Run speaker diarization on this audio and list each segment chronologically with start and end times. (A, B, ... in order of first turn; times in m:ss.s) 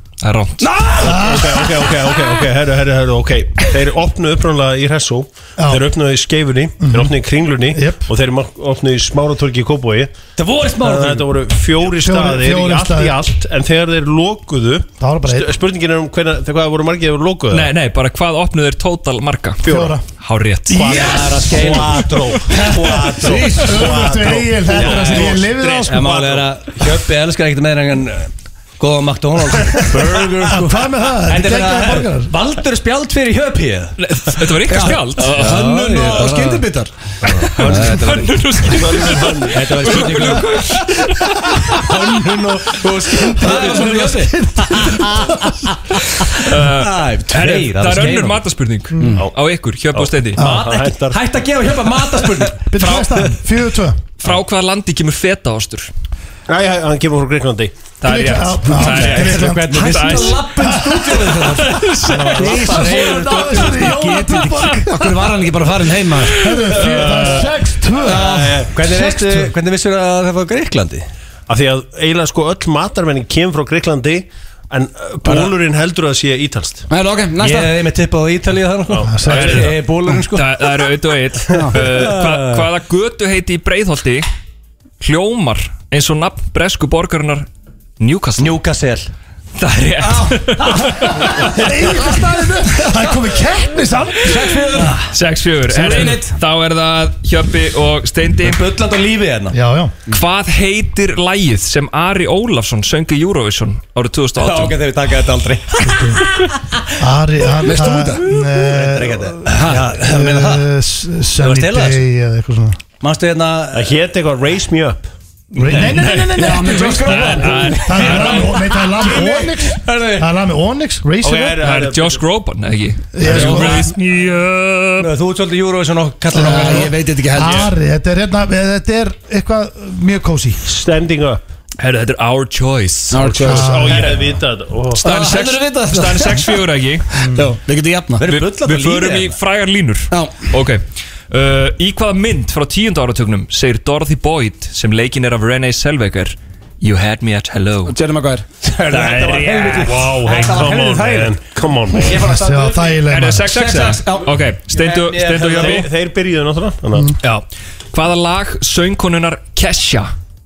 0:00.2-0:00.7 A
0:00.6-0:01.8 B
0:01.0-0:01.7 C
0:01.0-0:10.1 D
0:05.6-0:05.8 C
0:06.8-0:07.1 C
0:07.7-0:08.1 C
0:10.4-0:11.3 E
0:10.8-0:17.7 D
0:11.9-0:13.2 C
0:15.0-0:15.5 C
0:17.5-0:21.0 A
0:19.6-0:20.0 D
0:19.6-0:20.0 C
0:20.7-0:26.5 D
0:20.8-0:25.3 E
0:20.9-0:21.7 C
0:22.8-0:26.2 C
0:25.8-0:33.9 E
0:29.9-0:30.4 D
0:30.4-0:32.3 C
0:34.0-0:35.6 A
0:34.7-0:36.9 B
0:35.3-0:36.6 E
0:37.4-0:38.3 E
0:37.6-0:40.3 D
0:37.6-0:41.7 A
0:39.5-0:40.6 E
0:41.7-0:48.4 E
0:43.4-0:45.4 C
0:43.4-0:44.3 B
0:46.4-0:50.4 A
0:49.0-0:49.2 C
0:49.9-0:51.2 D
0:50.4-0:52.7 E
0:50.4-0:50.7 C
0:52.7-0:54.0 C
0:52.8-0:53.3 A
0:54.2-0:55.9 A
0:56.5-0:57.8 D
0:58.0-1:00.5 A
0:58.0-1:01.6 C
0:58.7-1:04.4 E
0:59.9-1:00.3 B
1:01.2-1:01.6 B
1:01.6-1:02.9 A
1:02.3-1:06.4 B
1:02.4-1:04.9 C
1:06.3-1:07.5 A
1:06.4-1:09.5 C
1:08.1-1:08.5 B
1:08.1-1:09.1 D
1:08.2-1:11.0 E
1:11.5-1:16.9 D
1:16.9-1:17.7 B
1:17.4-1:20.6 E
1:18.9-1:19.7 D
1:19.1-1:19.7 C
1:20.3-1:24.3 A
1:21.6-1:22.7 E
1:25.0-1:27.5 A
1:28.0-1:28.6 A
1:28.4-1:29.1 E
1:29.6-1:31.5 A
1:30.0-1:31.4 B
1:31.4-1:34.6 C
1:34.2-1:35.0 B
1:34.7-1:35.1 E
1:35.1-1:38.6 A
1:35.7-1:36.3 B
1:38.4-1:39.6 E
1:39.5-1:40.0 C
1:40.1-1:44.8 A
1:44.4-1:46.5 E
1:45.8-1:46.2 C
1:47.0-1:52.8 C
1:47.6-1:48.2 B
1:48.5-1:50.7 E
1:49.5-1:49.8 B
1:51.4-1:52.0 E
1:53.0-1:54.0 E
1:53.7-1:55.1 D
1:55.6-2:01.6 C
1:55.7-1:56.0 E
1:55.7-1:58.6 A
1:56.4-1:57.8 B
1:57.2-2:00.3 E
2:01.2-2:02.2 D
2:01.6-2:05.1 A
2:03.1-2:03.9 C
2:03.3-2:03.8 E
2:05.0-2:06.9 E
2:06.3-2:07.6 B
2:06.3-2:10.6 C
2:07.4-2:07.7 D
2:10.6-2:11.4 D
2:11.8-2:14.3 A
2:13.1-2:13.8 B
2:13.4-2:14.2 C
2:13.4-2:15.0 D
2:15.0-2:17.1 A
2:15.0-2:16.6 B
2:17.2-2:17.5 C
2:17.2-2:18.2 B
2:18.2-2:19.4 E
2:18.2-2:28.0 A
2:20.1-2:20.4 B
2:27.8-2:28.4 B
2:28.6-2:31.4 E
2:28.9-2:30.2 A
2:29.8-2:32.2 D
2:31.9-2:33.0 E
2:32.2-2:33.6 C
2:33.0-2:35.9 A
2:33.5-2:34.2 B
2:33.8-2:35.8 E
2:35.5-2:37.1 D
2:37.2-2:40.1 A